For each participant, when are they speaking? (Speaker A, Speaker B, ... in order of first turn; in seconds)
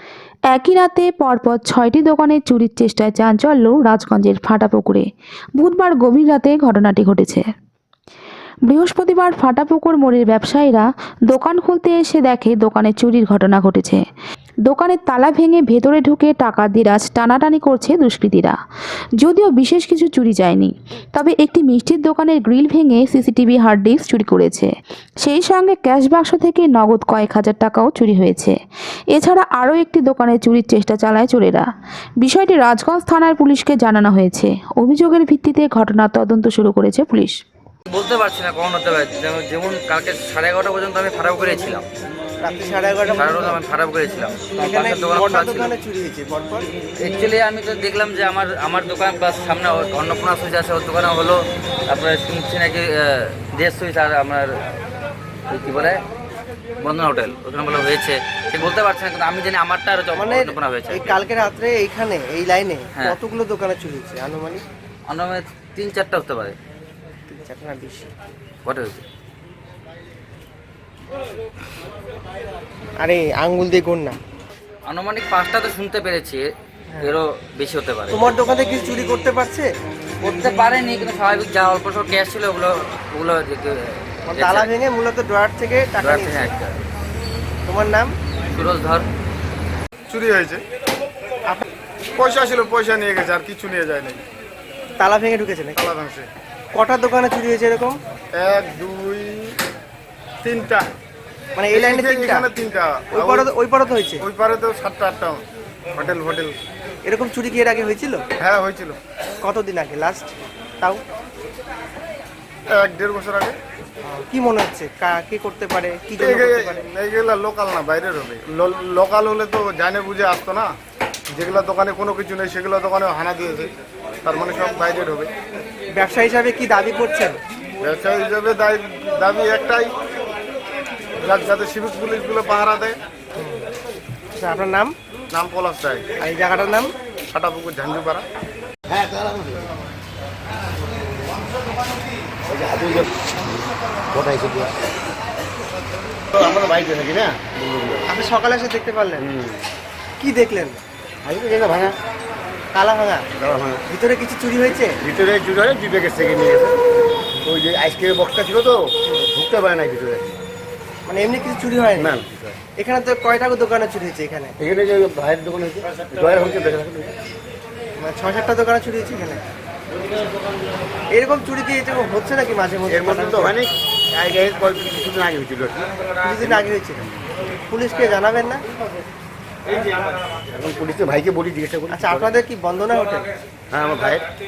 Speaker A: 0.5-5.0, 5.6-7.5, 8.7-14.0, 14.7-18.6, 19.2-24.7, 25.2-28.6, 29.1-31.6, 32.2-37.4
Speaker B: 37.9-41.9, 43.1-45.7, 47.0-54.5, 55.5-56.0, 56.8-61.2, 65.1-66.6, 68.7-69.0, 74.9-76.5, 77.0-78.3, 80.2-84.7, 86.0-86.8, 88.5-89.1
Speaker C: 42.4-43.6, 44.6-46.7, 60.2-64.6, 67.3-68.1, 73.0-74.2, 78.1-79.7, 84.3-86.5, 87.7-88.1, 95.0-95.8, 96.7-98.0, 101.6-102.5, 103.1-104.2, 107.0-108.2, 109.4-111.0, 114.1-116.9, 125.9-127.4, 133.4-133.7, 134.4-134.9, 136.2-136.9, 148.1-149.3, 150.2-150.8, 152.7-153.2, 153.9-155.0, 161.1-162.1, 162.8-164.5, 168.0-169.4, 171.1-173.6, 176.2-177.1, 177.7-178.6, 181.9-183.3
Speaker D: 90.1-90.6, 92.2-94.2, 95.8-96.3, 98.3-99.6, 100.4-100.9, 101.7-103.5, 104.2-105.4, 106.0-106.6, 108.4-109.0, 112.7-113.5, 116.2-120.7, 121.3-123.7, 124.2-125.3, 127.8-129.9, 131.2-133.0, 135.3-136.1, 137.3-138.2
Speaker E: 138.9-139.7, 142.5-144.7, 146.3-148.1, 149.2-149.7, 151.2-151.9, 153.4-153.8, 155.0-156.8, 157.4-160.4, 162.0-162.6, 164.6-167.1, 172.9-175.9, 176.4-177.2, 180.5-182.4, 183.7-184.2